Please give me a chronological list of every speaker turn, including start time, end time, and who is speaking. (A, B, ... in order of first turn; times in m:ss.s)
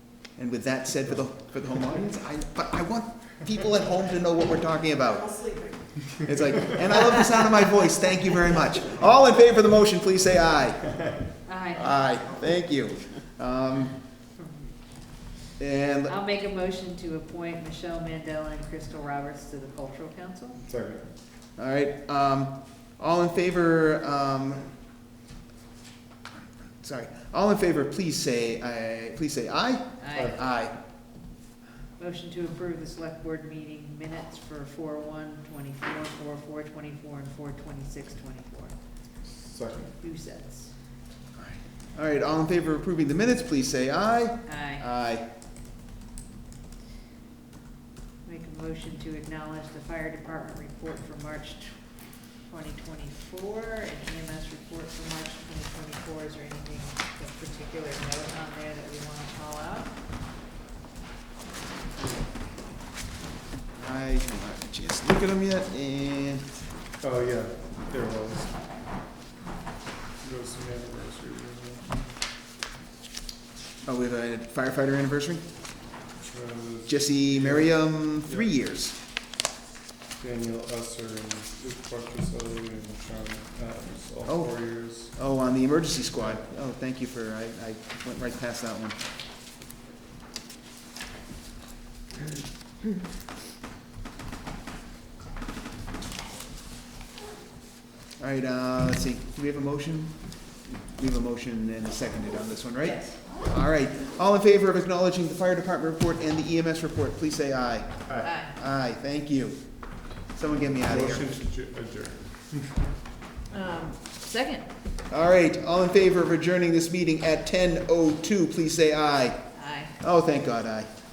0:00.2-0:14.0 A
0:11.4-0:11.9 B
0:15.6-0:16.1 A
0:16.1-0:20.6 B
0:20.6-0:21.0 C
0:21.6-0:24.7 A
0:26.8-0:30.8 A
0:30.0-0:30.4 B
0:30.1-0:30.4 C
0:32.0-0:38.7 B
0:39.2-0:39.9 C
0:40.0-0:40.7 B
0:41.4-0:45.3 A
0:44.4-0:44.8 B
0:48.2-0:59.9 B
1:03.7-1:06.5 A
1:07.0-1:08.6 C
1:10.2-1:12.1 C
1:13.8-1:15.4 A
1:16.2-1:18.5 C
1:16.9-1:19.0 A
1:20.2-1:25.1 C
1:24.3-1:29.0 A
1:26.2-1:26.4 C
1:38.2-1:40.4 A
1:40.9-1:49.6 A
1:48.2-1:48.5 B
1:50.3-1:51.2 A
1:50.8-1:52.8 C
1:53.5-1:54.7 B
1:55.1-2:00.9 A
1:59.5-1:59.9 B